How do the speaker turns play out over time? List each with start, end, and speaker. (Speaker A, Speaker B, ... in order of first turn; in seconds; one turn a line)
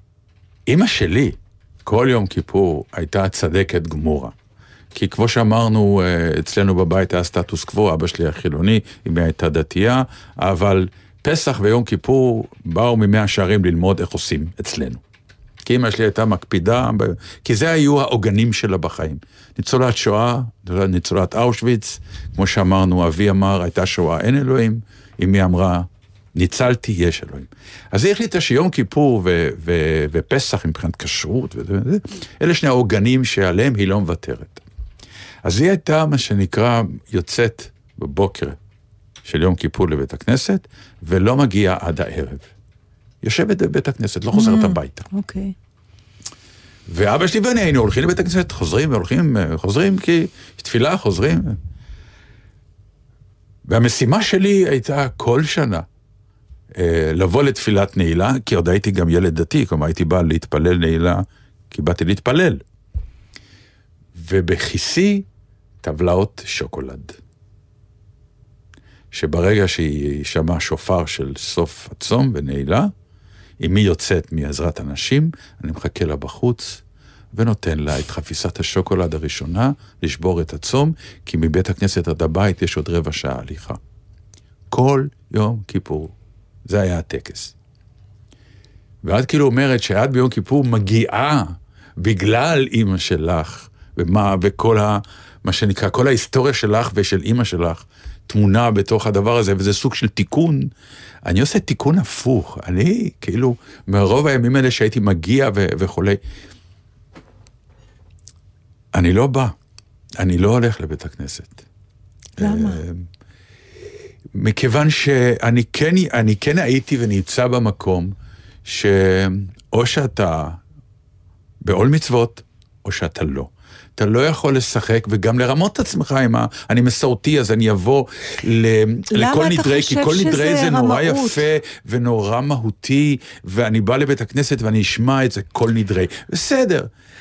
Speaker A: 0.7-4.3
Speaker A: 4.9-15.0
Speaker A: 15.6-34.6
Speaker A: 35.4-38.6
Speaker A: 39.2-42.5
Speaker A: 43.2-45.1
Speaker B: 44.3-45.5
Speaker A: 46.9-51.6
Speaker A: 53.6-55.9
Speaker A: 56.7-62.6
Speaker A: 64.2-65.2
Speaker A: 65.8-67.2
Speaker A: 69.1-72.9
Speaker A: 73.6-76.8
Speaker A: 77.3-83.8
Speaker A: 84.7-86.1
Speaker A: 86.7-87.5
Speaker A: 89.0-100.7
Speaker A: 101.2-106.2
Speaker A: 108.9-109.5
Speaker A: 110.2-111.6
Speaker B: 112.4-112.8
Speaker A: 112.4-113.0
Speaker A: 114.3-120.6
Speaker A: 121.6-136.9
Speaker B: 129.1-131.4